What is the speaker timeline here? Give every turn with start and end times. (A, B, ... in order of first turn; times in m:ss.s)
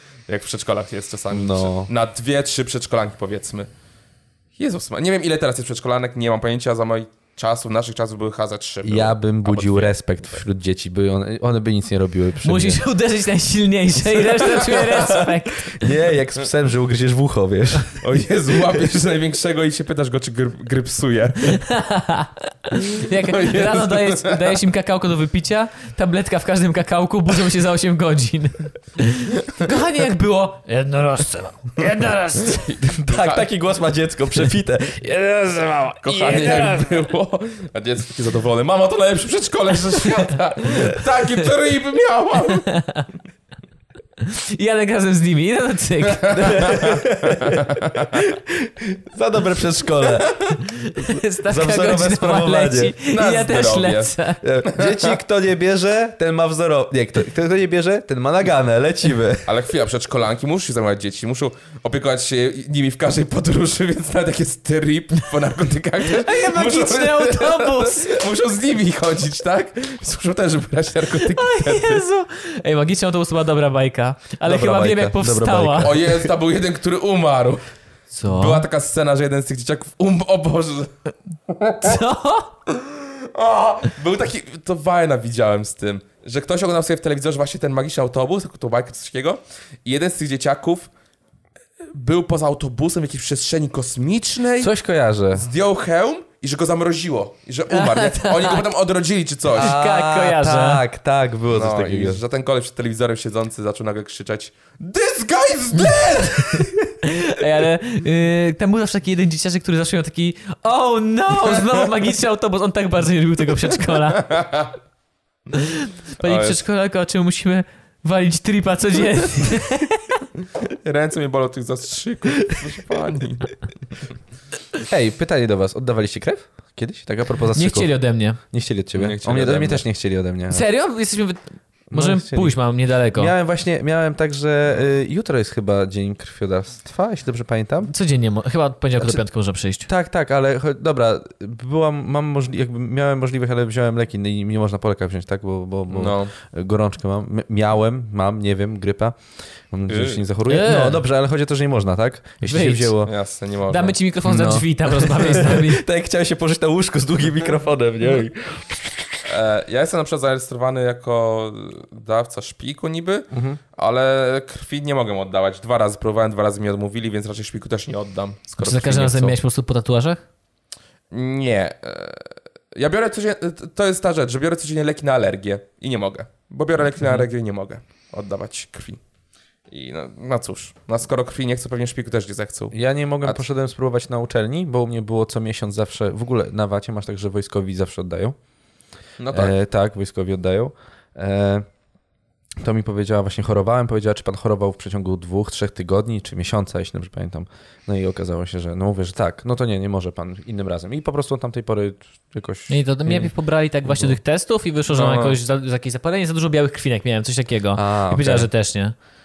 0:00.3-0:03.7 A
0:01.3-0:01.9 B
0:04.6-0:09.9 A
0:08.8-0:12.8 B
0:12.4-0:15.9 C
0:14.6-0:18.0 B
0:18.0-0:21.6 A
0:21.4-0:32.7 C
0:23.0-0:24.6 A
0:32.5-0:33.4 A
0:32.9-0:35.0 B
0:35.0-0:37.0 C
0:36.0-0:42.7 A
0:42.6-0:43.1 C
0:44.2-0:46.8 C
0:46.1-0:48.2 A
0:46.3-0:52.9 B
0:50.6-0:54.4 C
0:53.1-0:55.2 A
0:54.4-0:59.5 B
0:59.4-1:12.0 A
1:06.0-1:08.2 C
1:11.2-1:15.9 C
1:14.4-1:16.3 B
1:15.8-1:17.6 A
1:18.1-1:18.6 C
1:18.3-1:20.9 A
1:21.5-1:22.0 A
1:21.8-1:22.5 C
1:22.7-1:30.9 A
1:31.9-1:34.7 A
1:34.6-1:35.5 B
1:35.3-1:39.7 A
1:37.7-1:38.6 C
1:39.5-1:42.2 B
1:39.6-1:40.8 C
1:41.5-1:46.9 A
1:45.8-1:54.4 C
1:54.2-1:54.7 A
1:55.5-2:00.2 C
1:56.2-1:56.6 A
2:00.6-2:03.6 A
2:04.9-2:10.6 B
2:07.5-2:08.4 C
2:08.9-2:09.8 A
2:10.5-2:13.3 C
2:11.9-2:12.6 B
2:13.1-2:17.9 B
2:17.8-2:19.9 C
2:19.8-2:29.2 B
2:25.9-2:26.3 A
2:29.7-2:33.1 B
2:29.9-2:30.2 A
2:30.4-2:31.0 C
2:32.4-2:33.0 C
2:33.0-2:34.0 A
2:33.7-2:35.8 C
2:34.2-2:39.2 B
2:39.2-2:49.3 A
2:43.3-2:43.6 B
2:48.6-2:50.2 C
2:51.1-2:59.0 A
2:59.7-3:03.4 A
3:02.7-3:08.4 B
3:09.2-3:09.5 A
3:09.3-3:11.6 B
3:12.6-3:23.3 B
3:22.7-3:29.0 C
3:23.8-3:24.2 B
3:24.9-3:25.4 A
3:27.7-3:28.5 B